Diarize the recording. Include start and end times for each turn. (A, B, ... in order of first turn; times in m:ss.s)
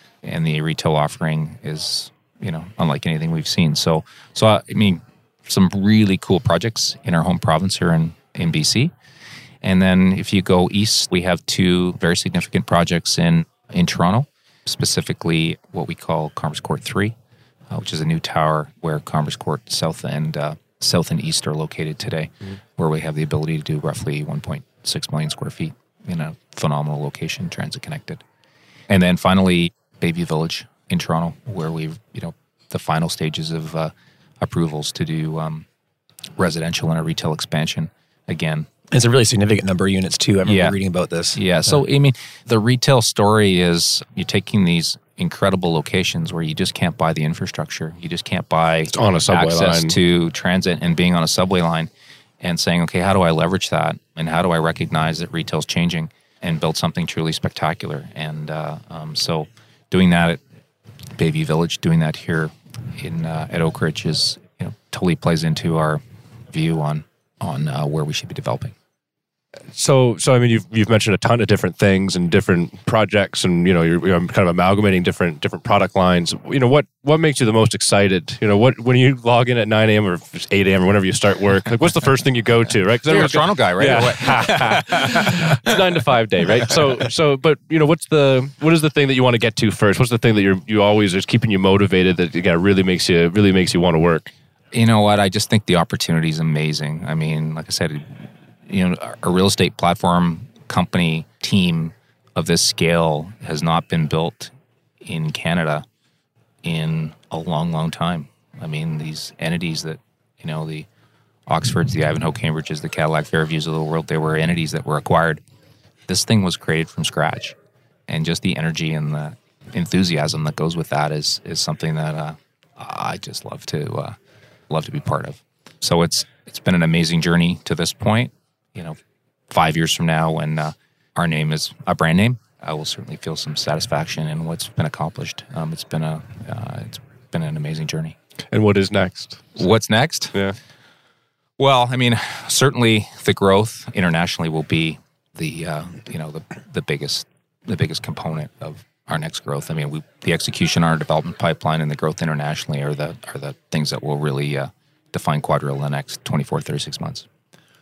0:00.2-0:08.9 A
0:09.6-0:17.2 A
0:17.7-0:28.2 A
0:28.9-0:35.7 A
0:36.4-0:38.7 A
0:38.9-0:41.8 B
0:40.5-0:40.8 A
0:41.3-0:51.9 A
0:48.9-0:50.0 C
0:52.4-1:00.4 A
1:01.2-1:08.8 A
1:09.7-1:34.3 C
1:23.1-1:25.7 A
1:34.7-1:45.8 A
1:46.6-1:50.9 A
1:51.5-1:55.4 A
1:56.1-1:57.6 A
1:58.1-2:04.2 A
2:04.7-2:09.0 A
2:09.5-2:18.2 A
2:18.5-2:19.6 C
2:19.6-2:20.4 A
2:21.6-2:37.3 A